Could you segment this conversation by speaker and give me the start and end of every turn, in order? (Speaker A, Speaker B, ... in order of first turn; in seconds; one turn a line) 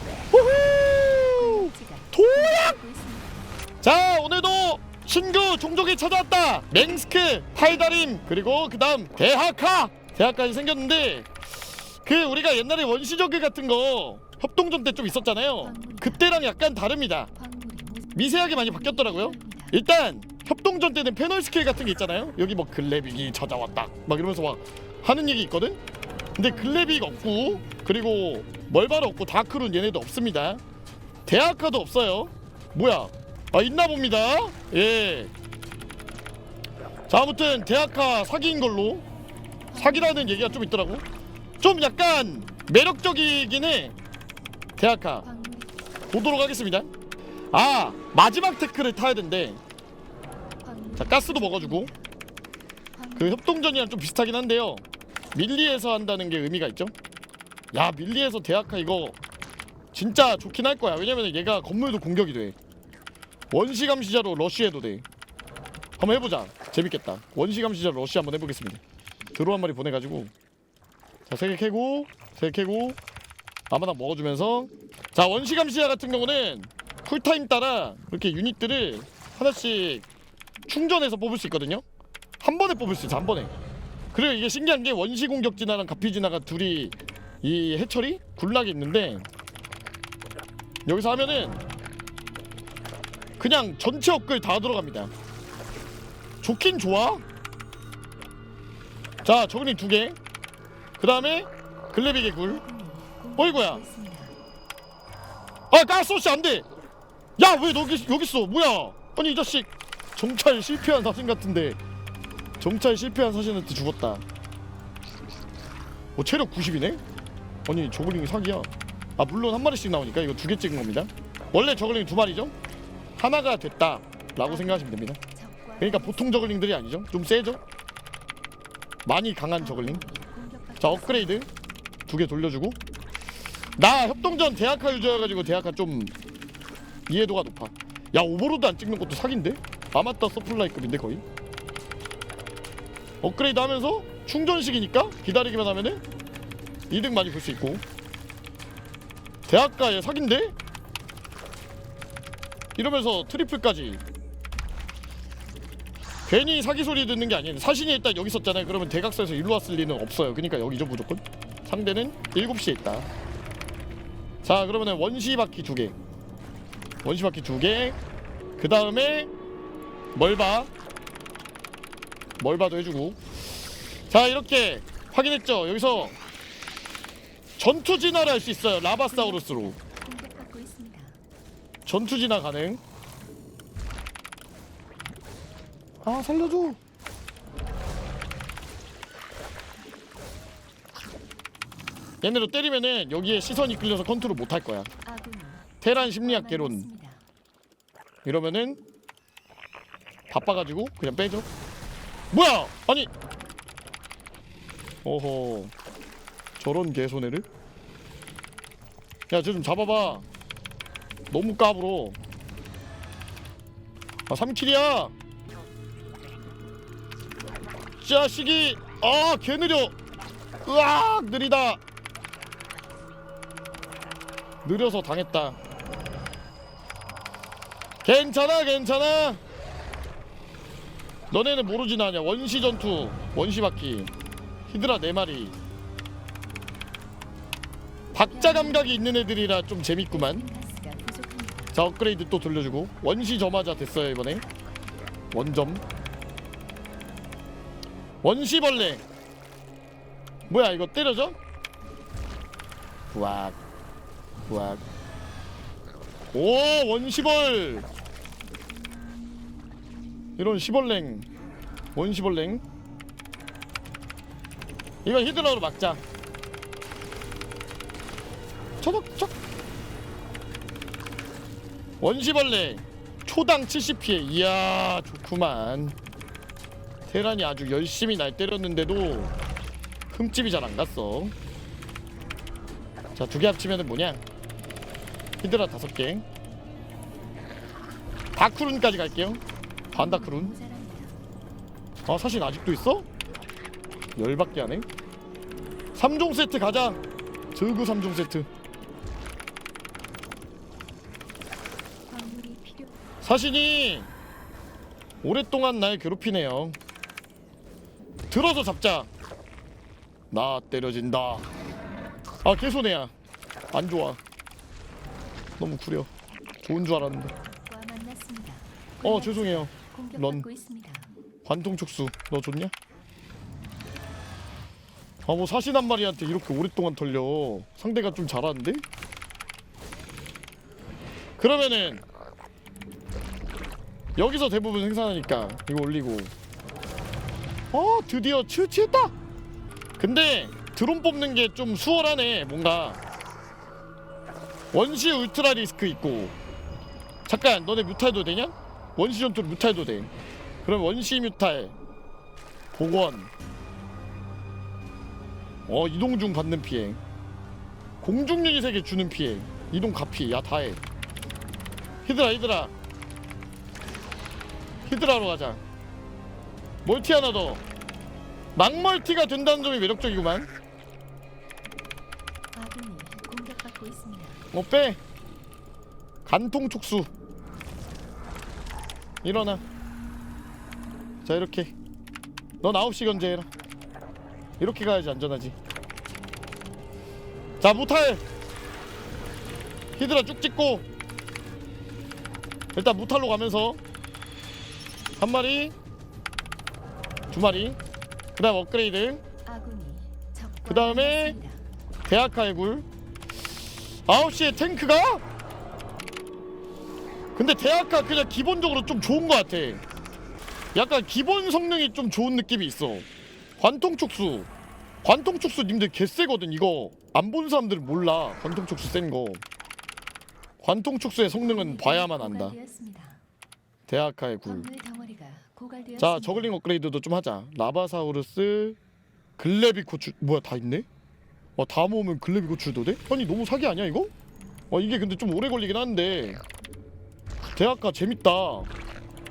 Speaker A: 0.3-2.8
Speaker B: 1.3-3.5
Speaker A: 3.8-11.3
Speaker A: 12.0-17.3
Speaker B: 15.6-16.2
Speaker B: 17.3-19.8
Speaker A: 18.1-25.8
Speaker A: 26.4-30.6
Speaker B: 26.4-27.8
Speaker A: 31.2-35.3
Speaker A: 37.1-39.0
Speaker B: 39.7-40.7
Speaker A: 39.8-41.0
Speaker A: 41.6-43.9
Speaker A: 44.8-45.2
Speaker B: 45.2-45.7
Speaker A: 46.1-46.9
Speaker A: 47.5-49.6
Speaker B: 50.6-52.0
Speaker A: 51.0-51.9
Speaker B: 52.9-53.4
Speaker A: 53.1-56.9
Speaker A: 57.7-59.2
Speaker A: 59.9-62.5
Speaker A: 63.5-65.0
Speaker A: 66.0-68.8
Speaker A: 69.3-70.3
Speaker A: 71.3-73.0
Speaker A: 73.7-80.0
Speaker A: 80.7-81.8
Speaker A: 82.4-83.5
Speaker A: 84.1-89.3
Speaker A: 90.8-91.6
Speaker A: 93.4-95.1
Speaker A: 96.4-97.2
Speaker A: 99.2-100.2
Speaker A: 101.0-102.6
Speaker B: 102.4-104.3
Speaker A: 103.4-103.8
Speaker A: 105.7-106.7
Speaker A: 107.4-111.8
Speaker A: 112.6-114.2
Speaker A: 116.2-117.0
Speaker A: 117.7-122.5
Speaker A: 123.2-125.2
Speaker B: 124.4-126.4
Speaker A: 125.8-127.6
Speaker A: 129.1-130.0
Speaker B: 129.6-131.4
Speaker A: 130.8-131.5
Speaker A: 132.1-132.8
Speaker A: 133.8-136.1
Speaker A: 137.1-141.2
Speaker A: 143.2-146.0
Speaker A: 146.9-147.8
Speaker A: 149.5-150.5
Speaker A: 152.8-154.0
Speaker A: 156.3-163.1
Speaker A: 164.4-165.9
Speaker A: 167.0-168.0
Speaker A: 168.6-169.3
Speaker A: 170.1-170.7
Speaker A: 172.4-173.2
Speaker A: 174.1-176.2
Speaker A: 177.6-179.8
Speaker B: 179.1-181.2
Speaker A: 181.8-182.8
Speaker A: 186.0-186.8
Speaker A: 192.2-194.9
Speaker B: 195.0-197.2
Speaker A: 195.8-196.9
Speaker A: 198.2-198.8
Speaker A: 200.3-201.5
Speaker A: 202.3-203.1
Speaker A: 205.0-205.7
Speaker A: 206.6-207.4
Speaker A: 209.3-210.2
Speaker A: 211.3-212.2
Speaker A: 214.3-215.1
Speaker A: 218.0-219.9
Speaker A: 220.6-221.8
Speaker A: 224.6-225.6
Speaker A: 228.0-229.4
Speaker A: 231.3-234.1
Speaker A: 234.7-235.6
Speaker A: 238.1-240.4
Speaker B: 238.3-239.0
Speaker B: 240.1-241.7
Speaker A: 241.7-244.4
Speaker A: 245.3-245.8
Speaker A: 248.2-249.0
Speaker A: 250.5-251.4
Speaker A: 253.1-253.6
Speaker A: 254.5-254.8
Speaker A: 256.3-257.9
Speaker A: 260.4-261.3
Speaker A: 261.9-262.6
Speaker A: 265.0-266.0
Speaker A: 268.8-269.3
Speaker A: 272.0-275.9
Speaker A: 277.1-279.3
Speaker A: 280.1-281.3
Speaker A: 283.1-284.2
Speaker A: 285.4-286.2
Speaker A: 288.3-289.4
Speaker B: 289.9-291.2
Speaker A: 289.9-290.5
Speaker A: 292.1-293.1
Speaker A: 294.1-294.9
Speaker A: 295.9-297.0
Speaker A: 297.5-298.5
Speaker B: 302.1-303.0
Speaker A: 303.2-304.1
Speaker A: 305.2-306.8
Speaker A: 308.3-309.1
Speaker A: 310.3-311.5
Speaker A: 312.4-313.1
Speaker A: 313.7-314.2
Speaker A: 315.6-316.1
Speaker A: 316.6-317.3
Speaker B: 317.4-321.1
Speaker A: 319.0-320.4
Speaker A: 321.4-322.7
Speaker A: 325.2-328.8
Speaker A: 331.4-332.0
Speaker A: 334.2-336.3
Speaker A: 337.7-339.1
Speaker A: 340.0-343.0
Speaker A: 344.7-346.3
Speaker A: 347.3-350.1
Speaker A: 350.6-351.7
Speaker A: 352.7-353.3
Speaker A: 355.7-357.0
Speaker A: 358.0-360.8
Speaker A: 362.0-362.7
Speaker A: 364.9-365.6
Speaker A: 366.8-367.6
Speaker A: 368.5-370.5
Speaker B: 372.5-374.4
Speaker A: 374.5-375.0
Speaker A: 376.2-377.1
Speaker A: 379.2-379.6
Speaker A: 381.2-381.7
Speaker A: 382.6-383.5
Speaker A: 384.6-385.5
Speaker A: 387.6-388.2
Speaker A: 390.0-390.8
Speaker A: 392.7-393.8
Speaker A: 395.2-395.7
Speaker A: 397.3-397.8
Speaker A: 398.4-399.2
Speaker B: 399.4-401.6
Speaker A: 400.7-401.4
Speaker A: 402.1-402.9
Speaker A: 404.1-405.2
Speaker A: 407.3-409.8
Speaker A: 410.7-413.1
Speaker A: 413.6-414.5
Speaker A: 415.0-419.4
Speaker A: 420.6-422.6
Speaker B: 421.3-423.2
Speaker A: 423.9-424.7
Speaker B: 424.4-426.6
Speaker A: 426.0-428.8
Speaker A: 429.4-430.9
Speaker A: 431.6-434.1
Speaker A: 434.7-436.4
Speaker A: 437.5-438.7